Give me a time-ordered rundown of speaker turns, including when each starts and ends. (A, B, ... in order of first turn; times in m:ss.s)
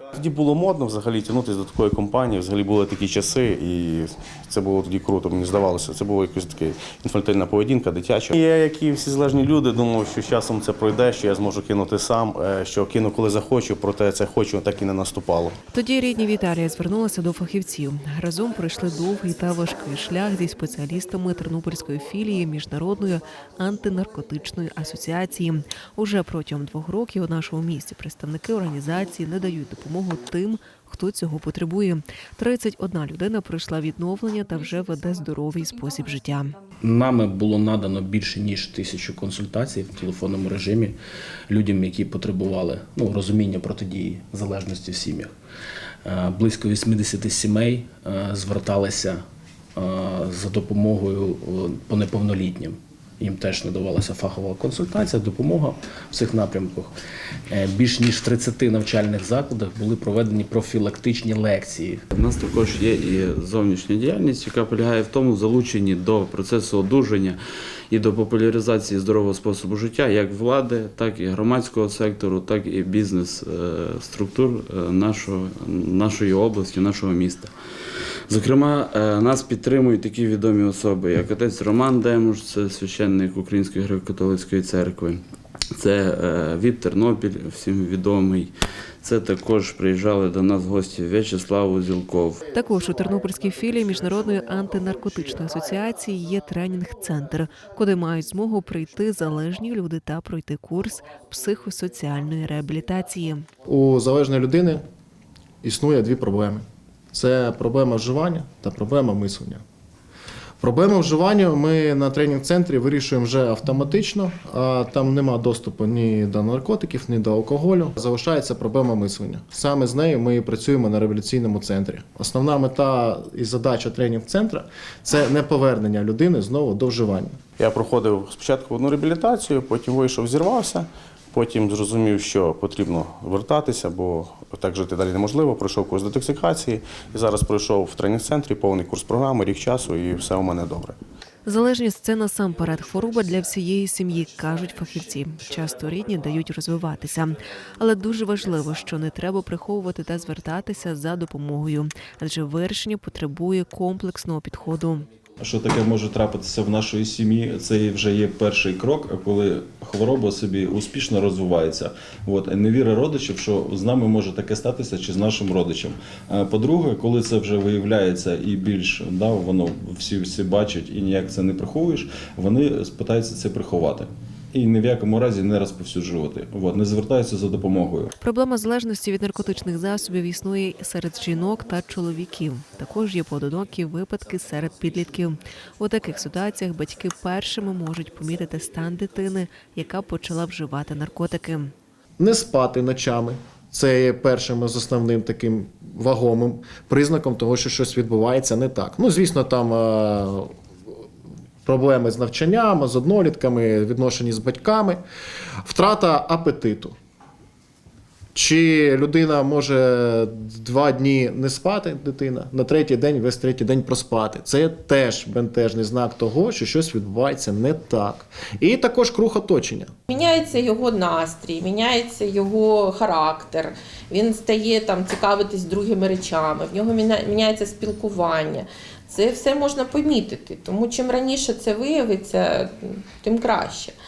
0:00.1-0:15.6 A
0:15.7-0:36.6 B
0:36.8-0:41.0 C
0:41.5-0:45.3 C
0:46.0-0:49.2 C
0:49.8-0:56.9 C
0:57.5-1:02.0 C
1:02.1-1:07.4 D
1:07.9-1:17.5 D
1:18.3-1:25.2 D
1:25.8-1:28.5 D
1:29.0-1:32.4 D
1:32.5-1:43.4 B
1:43.7-1:44.8 E
1:45.6-1:49.6 E
1:50.6-2:07.4 E
2:07.6-2:21.0 A
2:21.4-2:35.1 B
2:35.4-2:58.1 F
2:58.2-3:11.7 B
3:12.2-3:20.5 E
3:21.6-3:25.0 E
3:25.6-3:27.0 E
3:28.4-3:39.9 E
3:40.1-3:54.0 G